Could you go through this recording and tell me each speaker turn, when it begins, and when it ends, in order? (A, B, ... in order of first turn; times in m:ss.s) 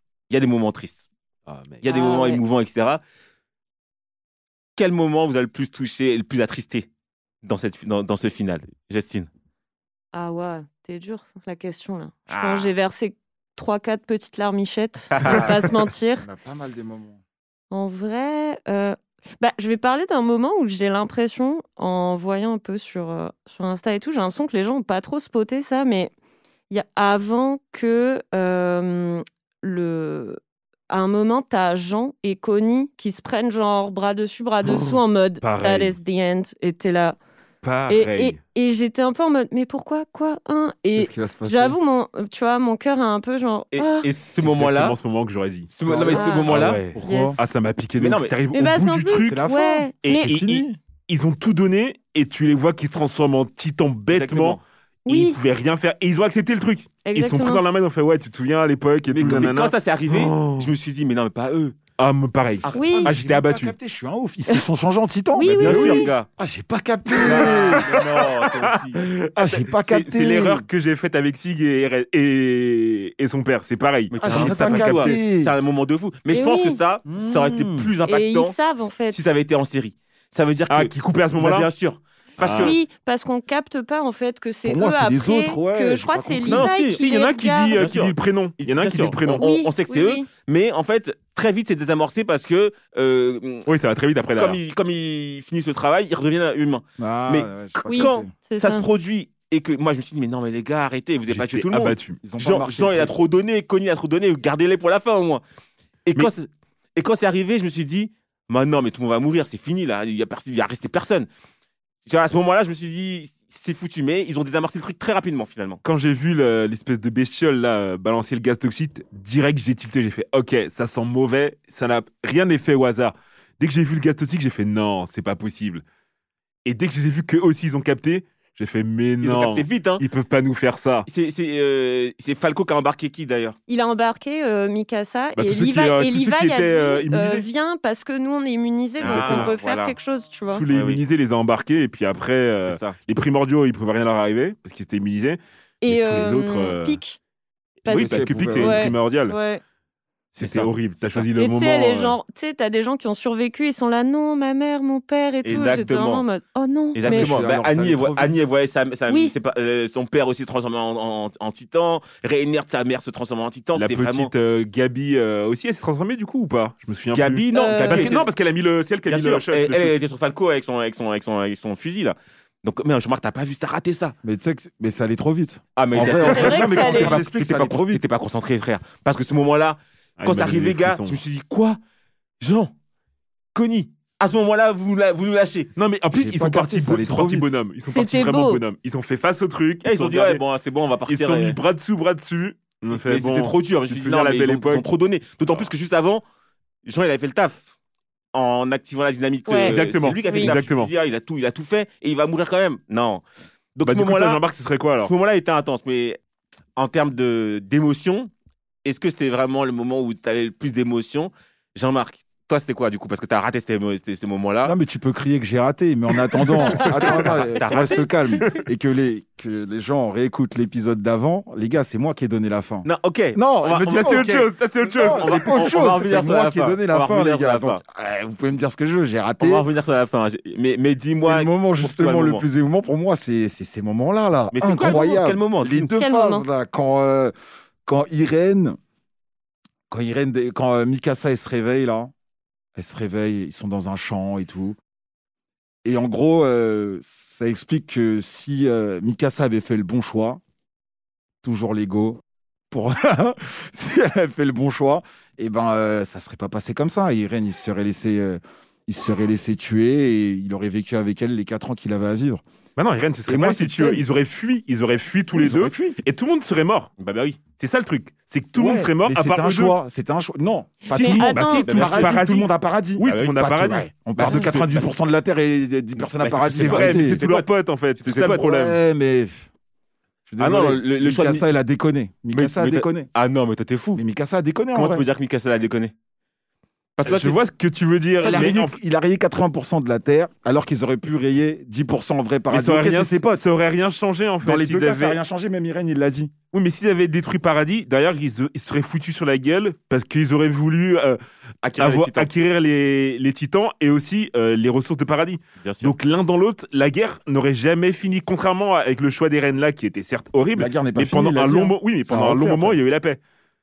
0:00.3-0:01.0 A
0:01.5-0:01.8 B
0:01.8-0:03.0 A
0:01.8-0:02.4 C
0:04.8-0:06.9 A
0:07.4-0:09.3 A
0:10.1-0:16.2 C
0:12.3-0:12.7 A
0:15.1-0:15.7 A
0:16.2-0:17.2 D
0:17.7-0:26.1 C
0:26.7-0:37.2 C
0:34.6-0:36.0 B
0:37.6-0:38.4 B
0:37.9-0:44.1 C
0:41.0-0:41.8 D
0:43.7-0:45.0 A
0:44.4-0:49.3 B
0:45.7-0:46.9 A
0:46.1-0:47.4 C
0:46.5-0:47.4 D
0:48.0-0:48.4 A
0:48.5-0:50.3 C
0:49.2-0:50.8 D
0:50.0-0:50.6 A
0:51.1-1:00.7 B
0:54.1-0:54.6 A
0:55.0-0:55.4 C
0:57.0-0:57.6 C
0:59.1-1:01.8 A
1:02.0-1:03.7 B
1:02.6-1:08.0 D
1:02.7-1:03.2 C
1:05.3-1:06.1 C
1:05.6-1:06.3 A
1:07.2-1:15.2 B
1:07.2-1:09.0 A
1:09.3-1:10.6 D
1:14.1-1:18.5 A
1:14.2-1:15.5 D
1:16.3-1:16.8 C
1:17.0-1:17.9 D
1:18.1-1:19.2 C
1:19.1-1:22.8 A
1:20.7-1:21.7 B
1:22.4-1:22.8 B
1:22.5-1:27.9 C
1:24.6-1:26.7 D
1:26.4-1:27.0 A
1:26.9-1:29.4 B
1:27.7-1:33.7 A
1:29.4-1:30.3 C
1:33.7-1:34.6 B
1:34.3-1:45.4 A
1:37.0-1:38.3 D
1:37.8-1:38.9 C
1:41.3-1:42.2 B
1:42.2-1:43.2 D
1:46.0-1:51.3 A
1:52.0-1:55.8 A
1:55.8-2:05.8 B
2:06.6-2:11.1 B
2:09.2-2:10.0 A
2:11.1-2:13.6 A
2:13.7-2:20.6 C
2:15.4-2:17.5 B
2:19.0-2:20.0 A
2:19.0-2:19.5 B
2:20.5-2:27.0 B
2:20.7-2:21.0 A
2:22.6-2:23.0 A
2:25.8-2:27.2 C
2:27.8-2:29.4 B
2:27.8-2:29.6 C
2:27.9-2:28.9 D
2:30.3-2:32.2 B
2:30.4-2:31.3 A
2:31.3-2:37.4 C
2:35.4-2:36.2 A
2:36.9-2:44.3 A
2:37.0-2:38.4 D
2:39.1-2:39.3 C
2:43.7-2:50.0 B
2:47.1-2:48.3 A
2:47.5-2:48.1 C
2:49.0-2:54.1 A
2:54.2-2:58.0 D
2:55.8-3:01.8 A
2:56.2-2:57.2 C
3:00.2-3:01.2 B
3:02.4-3:02.7 A
3:03.5-3:05.7 A
3:05.8-3:10.4 B
3:06.1-3:07.5 D
3:07.9-3:08.6 C
3:09.8-3:11.6 A
3:11.0-3:14.9 B
3:12.9-3:16.2 A
3:16.8-3:17.6 A
3:18.3-3:23.2 A
3:19.4-3:20.6 C
3:19.6-3:20.9 B
3:23.8-3:24.4 A
3:23.8-3:25.1 B
3:25.0-3:26.2 A
3:26.8-3:28.3 A
3:28.8-3:34.7 A
3:34.6-3:49.7 D
3:36.4-3:38.4 A
3:42.8-3:47.8 A
3:43.8-3:46.0 B
3:49.4-3:52.5 A
3:51.2-3:57.3 D
3:54.5-3:55.9 A
3:55.9-3:56.5 C
3:57.8-3:58.8 D
3:59.9-4:02.1 D
4:02.8-4:04.8 D
4:05.8-4:10.4 D
4:11.4-4:12.2 D
4:12.7-4:22.4 D
4:22.8-4:26.9 B
4:23.2-4:24.0 D
4:25.3-4:26.0 D
4:27.0-4:27.4 A
4:27.5-4:29.8 B
4:28.5-4:37.2 D
4:30.9-4:32.2 C
4:30.9-4:34.7 B
4:31.7-4:32.1 A
4:33.0-4:33.5 A
4:34.2-4:34.9 A
4:36.2-4:38.5 A
4:36.5-4:38.8 B
4:38.1-4:39.5 D
4:40.3-4:43.1 D
4:40.4-4:41.5 A
4:42.3-4:44.0 A
4:44.0-4:45.1 D
4:44.7-4:45.9 A
4:47.0-4:47.4 A
4:47.0-4:48.8 B
4:48.2-4:53.4 D
4:48.2-4:48.5 A
4:52.5-4:55.2 B
4:54.4-4:56.3 D
4:56.5-5:01.2 B
5:01.6-5:02.3 A
5:01.8-5:13.2 B
5:05.6-5:05.9 A
5:10.5-5:12.8 D